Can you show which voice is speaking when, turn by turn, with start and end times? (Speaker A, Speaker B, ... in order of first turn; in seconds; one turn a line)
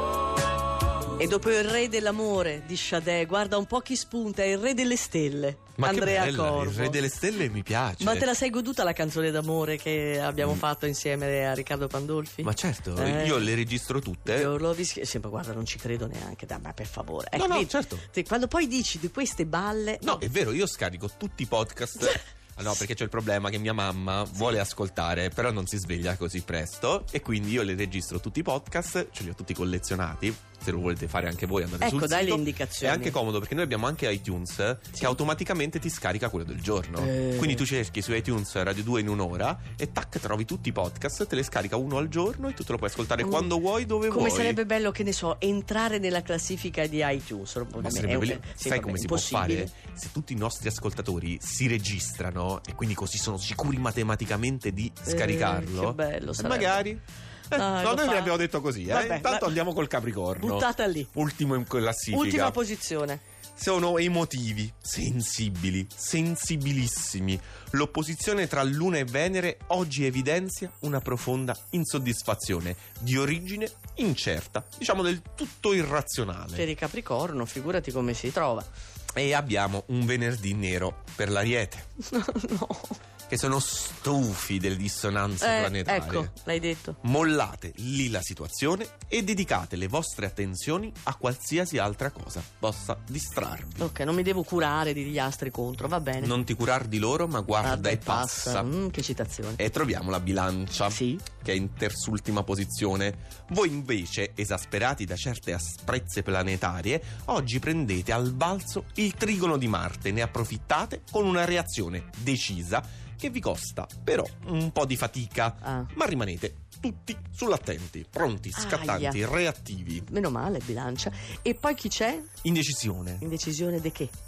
Speaker A: 1.2-7.0
Speaker B: 5.8-8.3
Speaker A: 8.0-13.5
Speaker B: 12.4-14.5
Speaker A: 14.2-20.2
Speaker B: 17.3-18.1
Speaker B: 20.0-44.6
Speaker A: 31.8-33.2
Speaker A: 37.0-37.6
Speaker A: 43.2-43.5
Speaker A: 44.1-49.7
Speaker B: 47.8-62.6
Speaker A: 55.0-56.8
Speaker A: 57.5-59.5
Speaker A: 60.4-61.1
Speaker A: 62.1-63.2
Speaker B: 63.5-76.7
Speaker A: 76.5-78.7
Speaker B: 79.1-81.9
Speaker A: 82.1-83.0
Speaker B: 83.3-86.3
Speaker A: 85.4-87.0
Speaker B: 87.0-93.9
Speaker A: 93.8-96.3
Speaker B: 96.2-98.7
Speaker A: 97.6-99.6
Speaker B: 99.6-120.1
Speaker A: 100.9-101.2
Speaker A: 115.6-115.9
Speaker A: 118.5-119.2
Speaker A: 120.1-122.3
Speaker B: 122.4-123.2
Speaker A: 123.2-124.1